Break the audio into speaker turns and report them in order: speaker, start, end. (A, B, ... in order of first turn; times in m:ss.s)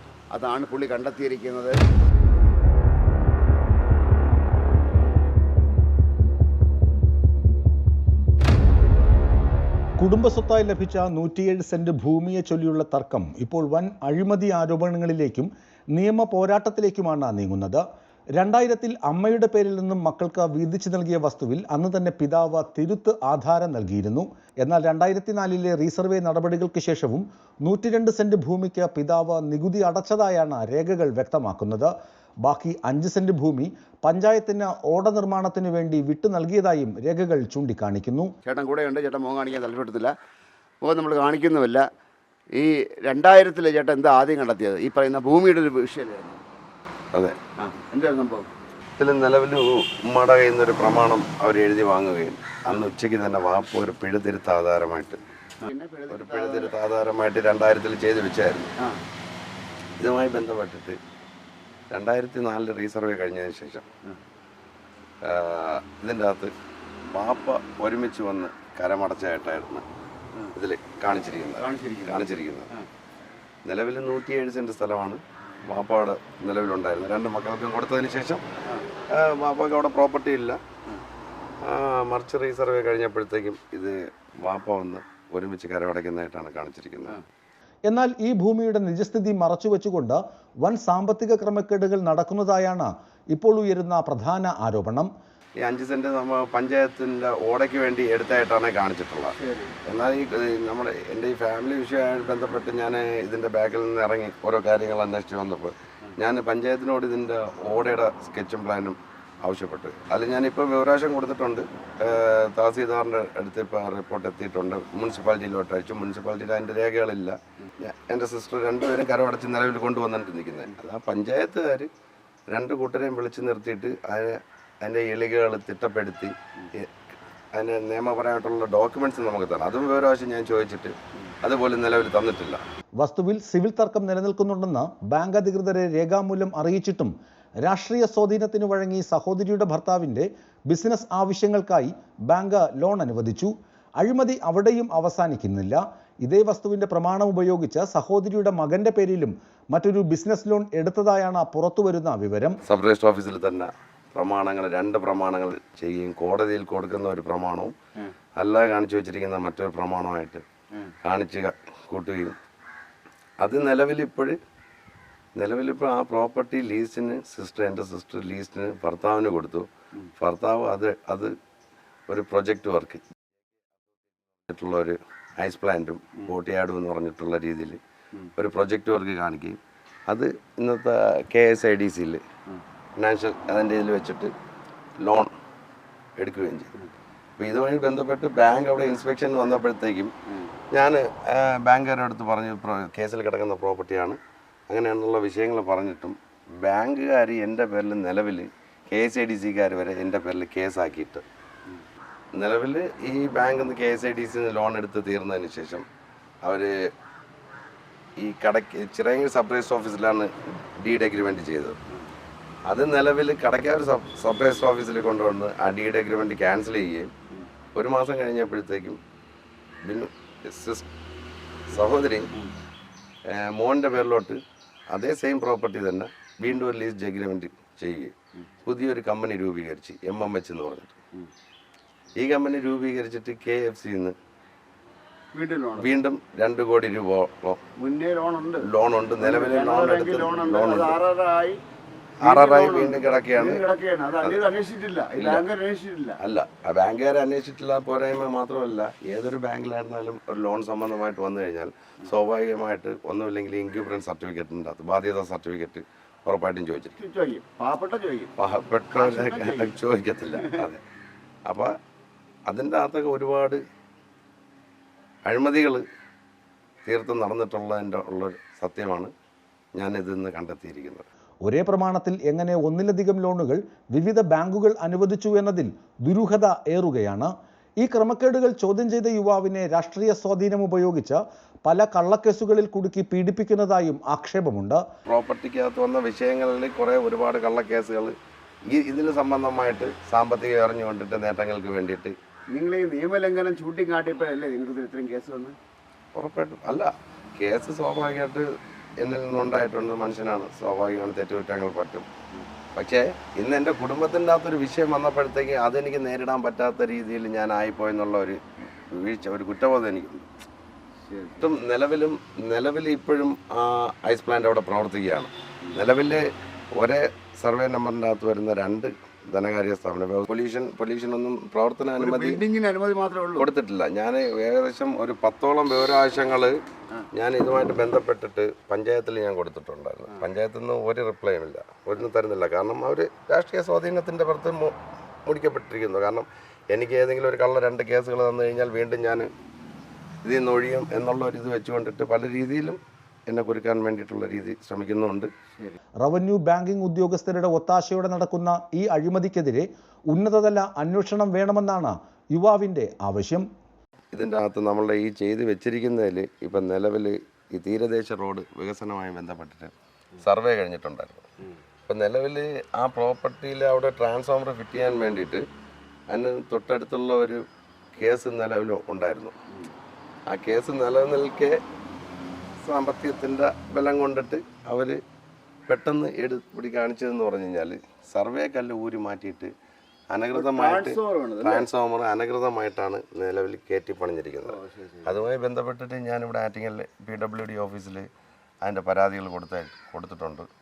0:00.3-0:01.8 A
0:10.0-0:17.8 B
0:18.4-0:31.9 B
0:32.4-0:38.3 B
0:38.4-0:40.1 A
0:40.8-0:41.8 A
0:42.5-0:46.4 A
0:47.6-0:48.5 A
0:49.0-0:55.2 C
0:55.6-0:56.7 A
0:56.1-0:58.7 C
1:00.0-1:01.0 C
1:01.9-1:03.8 C
1:05.2-1:06.5 C
1:07.1-1:09.8 C
1:10.5-1:12.7 C
1:11.6-1:12.8 A
1:13.6-1:18.4 C
1:19.1-1:20.6 C
1:21.6-1:27.2 C
1:27.9-1:35.1 B
1:35.6-1:39.3 C
1:39.3-1:39.7 A
1:39.8-2:01.9 C
2:02.5-2:06.9 C
2:07.5-2:12.6 C
2:13.0-2:17.1 B
2:17.6-2:32.6 B
2:32.6-2:37.7 C
2:38.4-2:40.4 C
2:41.0-2:42.3 C
2:43.4-2:44.4 C
2:45.4-2:49.7 C
2:50.2-2:51.3 C
2:52.1-2:53.0 C
2:54.5-2:57.8 C
2:58.4-3:02.2 C
3:03.0-3:04.3 C
3:05.0-3:05.3 C
3:06.2-3:06.8 C
3:07.4-3:10.1 C
3:10.7-3:21.2 C
3:22.3-3:25.8 C
3:26.4-3:26.7 C
3:28.2-3:31.8 C
3:32.7-3:37.1 C
3:37.7-3:39.0 C
3:39.8-3:40.9 C
3:41.7-3:42.3 C
3:43.3-3:51.0 C
3:52.2-3:54.2 C
3:55.3-3:55.9 A
3:55.8-3:57.6 C
3:57.8-3:58.7 A
3:58.6-4:01.0 C
3:59.2-4:01.6 A
4:02.2-4:03.6 C
4:02.2-4:06.2 A
4:05.2-4:05.5 C
4:06.2-4:16.9 C
4:16.9-4:18.3 A
4:18.4-4:20.8 C
4:18.9-4:19.8 A
4:20.3-4:20.6 A
4:21.5-4:21.7 C
4:22.5-4:23.6 C
4:25.2-4:25.8 C
4:26.8-4:29.1 C
4:29.8-4:31.1 C
4:31.4-4:37.3 B
4:37.8-4:44.8 B
4:45.1-4:48.1 C
4:48.7-4:52.2 C
4:52.5-4:55.6 A
4:56.1-4:58.4 C
4:59.0-5:02.0 C
5:02.8-5:08.4 C
5:08.9-5:10.3 C
5:11.1-5:11.4 A
5:11.4-5:22.4 C
5:22.0-5:23.5 A
5:23.4-5:26.6 C
5:27.1-5:34.7 C
5:35.2-5:39.3 C
5:40.2-5:45.3 C
5:46.0-5:53.4 B
5:54.1-6:01.2 C
6:01.9-6:05.4 C
6:06.1-6:07.4 C
6:07.9-6:09.3 C
6:10.3-6:11.6 C
6:12.6-6:15.0 C
6:15.7-6:19.5 C
6:20.1-6:28.1 C
6:20.3-6:21.7 A
6:24.4-6:25.1 A
6:28.6-6:30.5 C